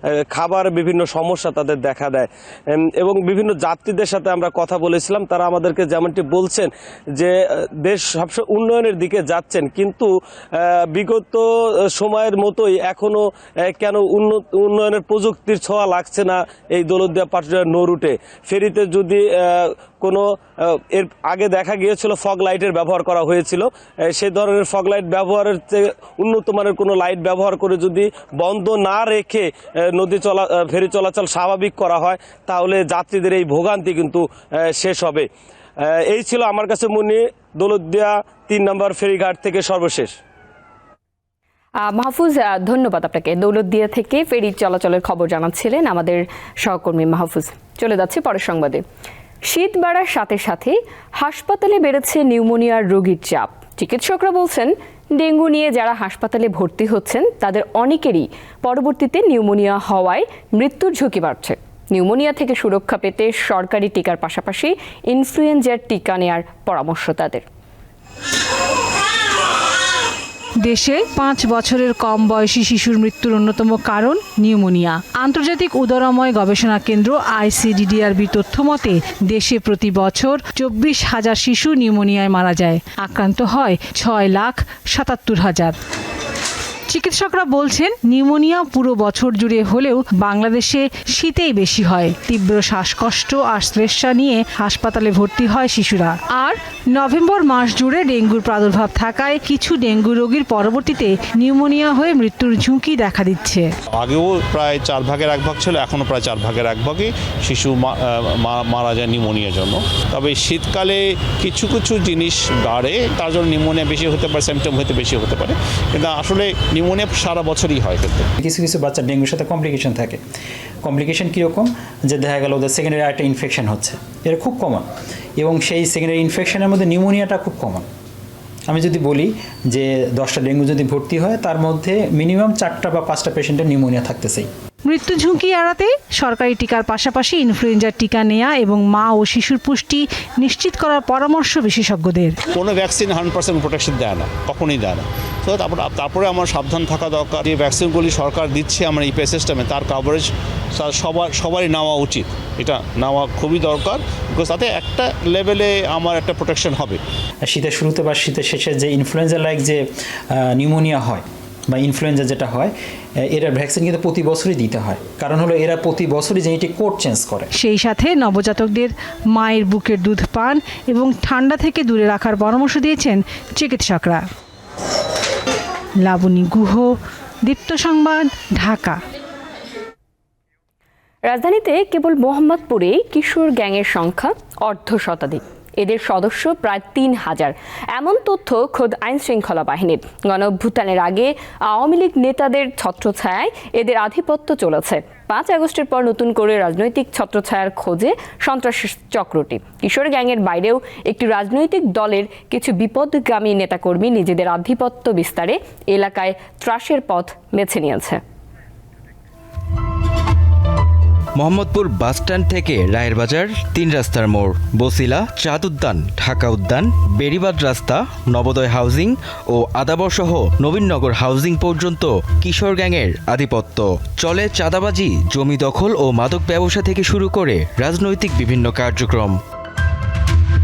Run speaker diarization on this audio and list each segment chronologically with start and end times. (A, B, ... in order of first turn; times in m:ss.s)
0:00.3-0:35.3 A
0:35.8-0:40.1 A
0:41.8-0:48.8 B
0:49.4-1:07.4 B
1:10.6-1:25.8 C
1:26.9-1:43.7 C
1:43.9-1:58.3 D
1:58.4-2:00.2 E
2:00.8-2:04.8 E
2:05.4-2:07.8 E
2:08.7-2:14.5 E
2:14.8-2:22.4 C
2:22.5-2:37.0 D
2:37.4-2:42.7 E
2:43.3-2:47.5 E
2:47.5-2:54.2 C
2:56.0-2:56.9 C
2:57.4-2:59.0 C
3:01.2-3:28.2 B
3:31.4-3:49.4 F